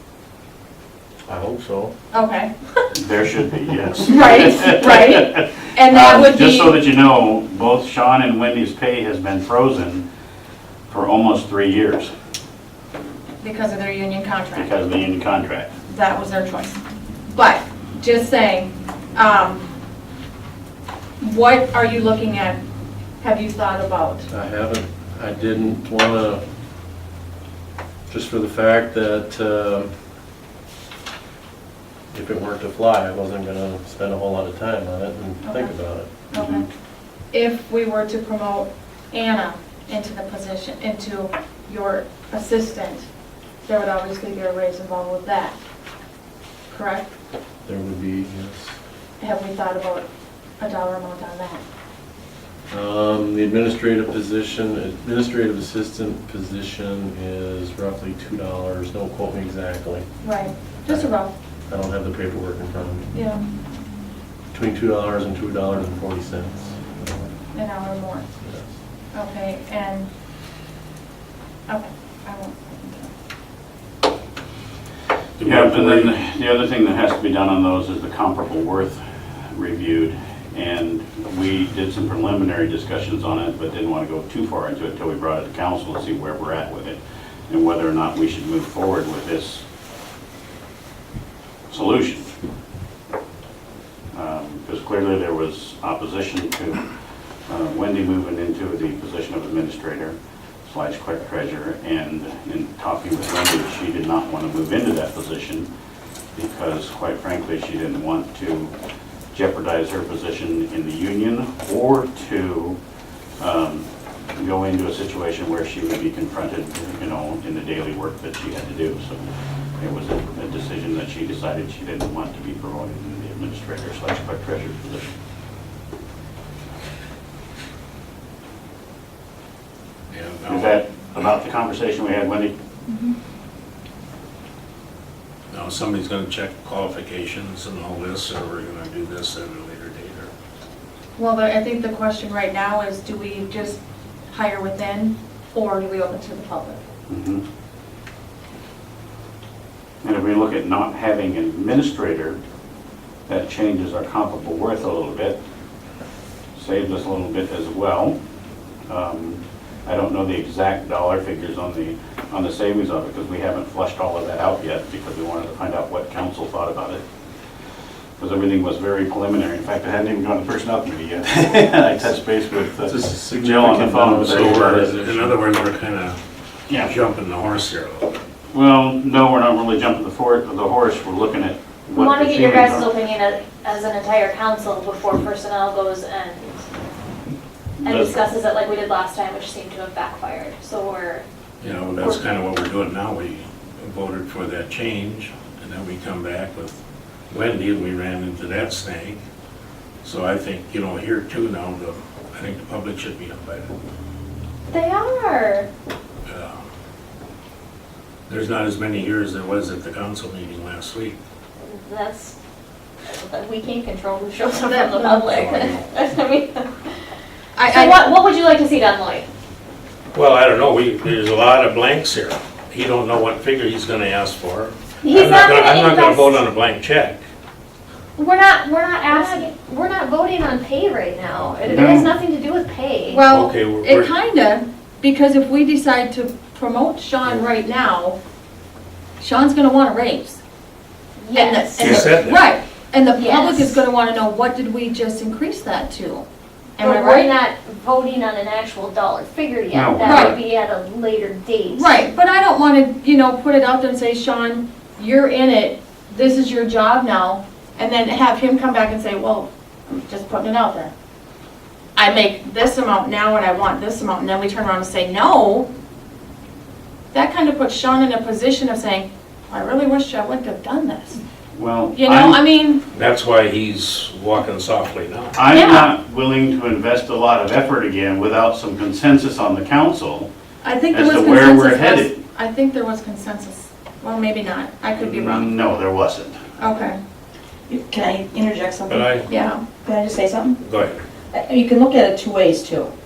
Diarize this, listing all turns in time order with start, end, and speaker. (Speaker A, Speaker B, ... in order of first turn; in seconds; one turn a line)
Speaker A: 1.2-1.9
Speaker B: 2.1-2.6
Speaker C: 3.0-10.0
Speaker B: 4.0-6.8
Speaker C: 10.9-12.1
Speaker B: 13.4-14.7
Speaker C: 14.5-15.7
Speaker B: 15.9-16.8
Speaker B: 17.3-19.7
Speaker B: 21.2-22.6
Speaker B: 23.2-24.3
Speaker A: 24.3-26.4
Speaker A: 28.1-29.9
Speaker A: 32.1-36.1
Speaker B: 35.4-36.7
Speaker C: 36.3-36.6
Speaker B: 37.3-43.1
Speaker B: 43.6-45.5
Speaker B: 46.7-47.1
Speaker A: 47.6-48.8
Speaker B: 49.2-50.1
Speaker B: 50.6-51.6
Speaker A: 52.7-60.1
Speaker B: 60.2-61.3
Speaker A: 61.7-63.1
Speaker B: 63.1-63.4
Speaker A: 64.5-67.3
Speaker B: 67.5-68.2
Speaker A: 68.4-68.7
Speaker B: 69.1-70.1
Speaker B: 71.7-73.1
Speaker D: 75.4-76.2
Speaker C: 75.4-89.6
Speaker C: 91.7-92.3
Speaker C: 94.1-96.8
Speaker C: 97.5-100.2
Speaker C: 100.7-105.7
Speaker C: 106.3-108.7
Speaker C: 109.3-112.8
Speaker C: 113.4-119.3
Speaker C: 119.8-125.1
Speaker D: 130.1-131.3
Speaker C: 130.5-132.5
Speaker B: 132.9-133.1
Speaker D: 135.5-140.3
Speaker B: 141.2-146.8
Speaker C: 147.1-147.4
Speaker C: 150.0-152.4
Speaker C: 153.3-155.4
Speaker C: 156.5-158.2
Speaker C: 158.9-167.0
Speaker C: 168.2-174.9
Speaker A: 172.8-175.4
Speaker D: 174.2-176.2
Speaker D: 176.7-178.1
Speaker C: 178.5-182.9
Speaker E: 181.9-186.6
Speaker C: 187.8-188.2
Speaker E: 187.8-191.2
Speaker D: 191.6-199.2
Speaker E: 191.9-192.2
Speaker D: 200.0-203.7
Speaker E: 204.7-205.7
Speaker D: 206.2-206.6
Speaker D: 208.3-211.2
Speaker E: 211.6-212.3
Speaker E: 213.1-216.9
Speaker B: 214.6-215.6
Speaker D: 215.4-215.8
Speaker B: 217.6-218.2
Speaker E: 217.6-219.3
Speaker D: 220.1-227.2
Speaker E: 225.0-226.4
Speaker E: 228.2-233.2
Speaker B: 229.0-229.5
Speaker C: 231.6-232.2
Speaker B: 233.1-238.2
Speaker D: 233.3-234.1
Speaker B: 239.2-240.4
Speaker E: 241.2-242.0
Speaker B: 241.3-246.2
Speaker D: 241.8-242.5
Speaker E: 243.1-243.8
Speaker B: 246.8-247.3
Speaker E: 246.8-252.0
Speaker C: 249.7-250.4
Speaker B: 250.0-250.4
Speaker B: 251.7-260.9
Speaker B: 261.9-265.7
Speaker B: 267.1-271.2
Speaker C: 271.5-272.4
Speaker B: 271.9-272.8
Speaker D: 272.9-275.4
Speaker C: 275.4-280.3
Speaker B: 275.5-275.9
Speaker B: 280.6-285.5
Speaker C: 280.9-282.2
Speaker C: 284.9-286.4
Speaker B: 286.6-287.0
Speaker F: 287.7-289.1
Speaker D: 288.9-289.3
Speaker B: 289.3-289.6
Speaker F: 289.8-290.6
Speaker D: 290.6-291.0
Speaker F: 291.3-292.9